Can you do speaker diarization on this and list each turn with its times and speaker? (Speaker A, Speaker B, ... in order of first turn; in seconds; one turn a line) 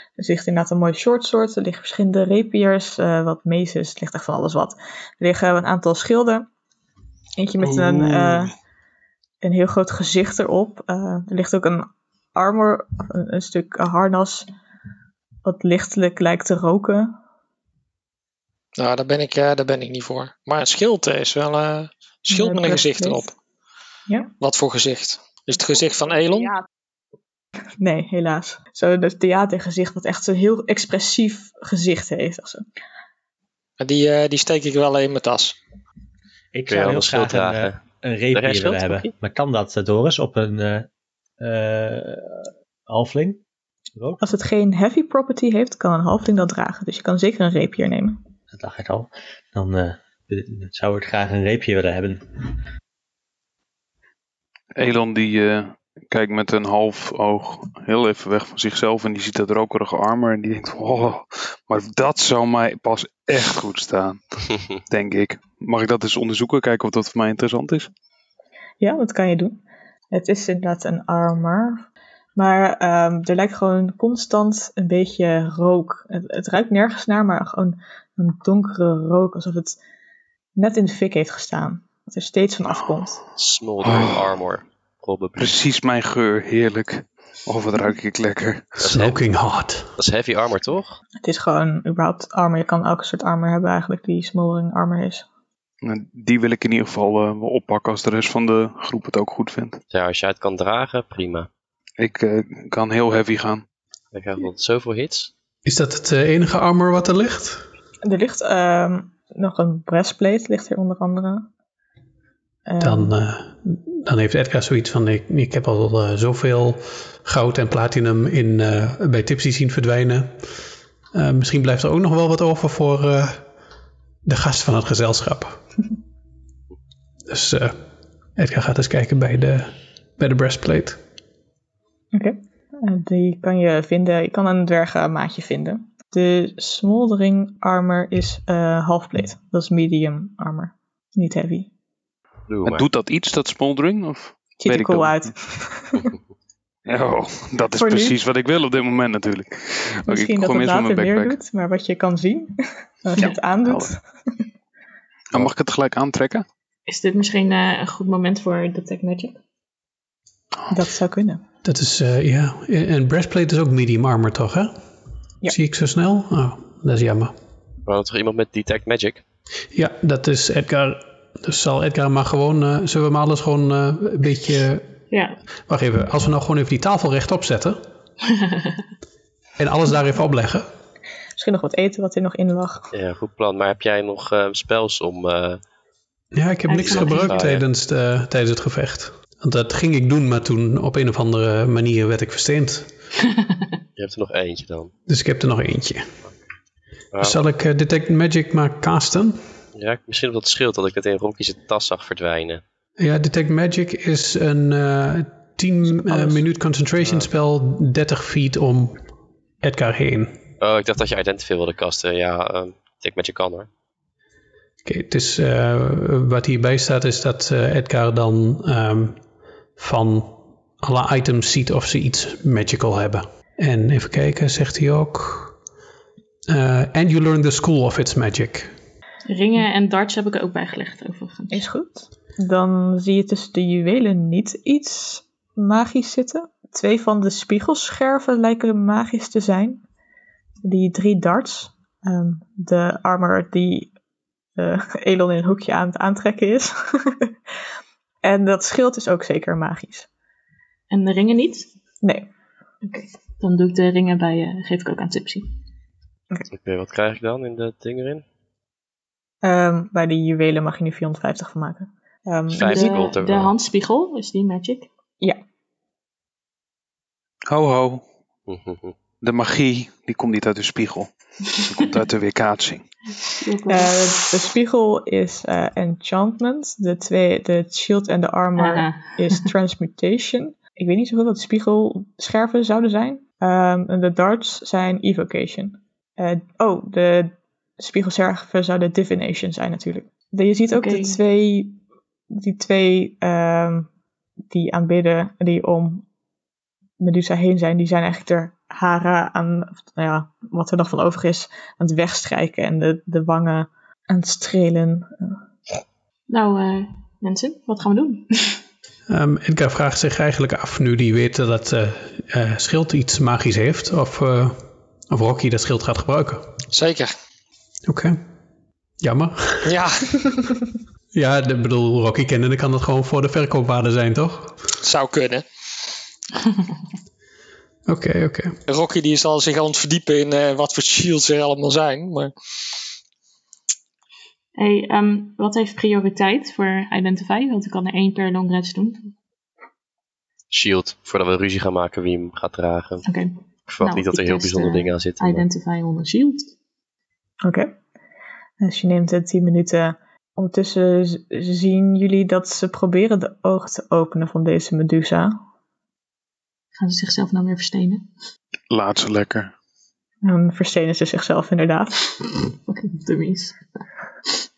Speaker A: 0.2-6.5
Speaker A: 7.4-8.5
Speaker B: 7.6-8.5
Speaker A: 9.4-14.5
Speaker A: 15.4-17.1
Speaker C: 18.8-23.3
Speaker A: 22.3-23.3
Speaker C: 24.4-26.6
Speaker A: 27.8-32.6
Speaker C: 33.8-35.6
Speaker D: 36.5-40.9
Speaker E: 36.7-37.8
Speaker E: 38.3-39.1
Speaker D: 41.4-43.4
Speaker A: 44.2-48.2
Speaker D: 48.5-52.2
Speaker B: 54.8-64.2
Speaker B: 64.9-67.9
Speaker A: 68.8-69.6
Speaker A: 70.1-79.8
Speaker A: 80.6-83.2
Speaker E: 83.4-85.5
Speaker B: 83.8-84.3
Speaker B: 85.4-88.8
Speaker E: 88.8-89.2
Speaker F: 88.8-89.9
Speaker E: 90.0-91.0
Speaker A: 91.2-95.2
Speaker B: 95.8-99.8
Speaker E: 99.9-101.5
Speaker B: 102.0-103.6
Speaker E: 104.1-105.3
Speaker F: 105.7-107.6
Speaker A: 108.0-111.5
Speaker A: 112.7-113.1
Speaker F: 112.8-120.5
Speaker F: 121.1-123.5
Speaker F: 124.2-125.6
Speaker F: 127.3-127.8
Speaker F: 128.4-131.0
Speaker A: 132.1-141.7
Speaker E: 142.5-142.8
Speaker B: 142.7-145.3
Speaker A: 144.6-146.1
Speaker B: 146.9-151.4
Speaker A: 147.8-148.2
Speaker A: 150.1-154.0
Speaker B: 153.2-153.9
Speaker B: 155.3-156.4
Speaker G: 156.9-159.4
Speaker A: 160.7-161.4
Speaker F: 161.6-164.8
Speaker F: 165.5-167.3
Speaker E: 167.9-169.2
Speaker F: 169.7-174.9
Speaker G: 175.1-175.4
Speaker F: 175.7-177.9
Speaker G: 178.5-178.8
Speaker F: 179.6-180.7
Speaker A: 181.4-182.9
Speaker E: 182.9-185.6
Speaker F: 186.3-192.9
Speaker G: 186.7-187.5
Speaker E: 186.8-187.7
Speaker E: 194.0-194.9
Speaker F: 195.1-196.1
Speaker E: 197.1-197.4
Speaker F: 197.2-199.4
Speaker E: 199.8-202.6
Speaker F: 203.0-209.0
Speaker A: 205.9-206.4
Speaker F: 209.6-210.4
Speaker E: 210.6-213.7
Speaker F: 214.8-219.2
Speaker F: 219.8-225.6
Speaker F: 226.5-228.7
Speaker G: 229.3-231.7
Speaker A: 231.5-239.8
Speaker A: 240.6-243.9
Speaker A: 244.6-247.3
Speaker A: 248.2-250.1
Speaker G: 250.9-251.7
Speaker A: 252.0-252.3
Speaker G: 252.8-255.5
Speaker E: 256.5-258.2
Speaker A: 259.4-263.1
Speaker E: 262.5-263.5
Speaker G: 262.6-264.9
Speaker B: 267.5-268.0
Speaker E: 268.5-268.9
Speaker B: 269.2-271.1
Speaker B: 271.6-272.9
Speaker G: 273.4-274.1
Speaker A: 273.7-291.8
Speaker G: 278.6-279.4
Speaker G: 290.7-291.2
Speaker A: 292.3-293.9
Speaker A: 294.5-296.1
Speaker A: 297.0-305.4
Speaker G: 306.3-308.6
Speaker F: 309.1-316.5
Speaker C: 316.7-317.1
Speaker F: 317.9-318.2
Speaker F: 319.0-319.8
Speaker C: 319.6-320.3
Speaker F: 321.1-324.6
Speaker C: 324.8-325.4
Speaker F: 327.9-328.6
Speaker C: 328.7-332.3
Speaker G: 334.6-339.1
Speaker E: 340.5-343.1
Speaker G: 343.1-346.5
Speaker E: 343.7-345.4
Speaker A: 347.4-347.7
Speaker A: 348.6-355.4
Speaker G: 356.8-358.1
Speaker B: 358.7-359.5
Speaker A: 360.2-362.1
Speaker G: 362.7-363.6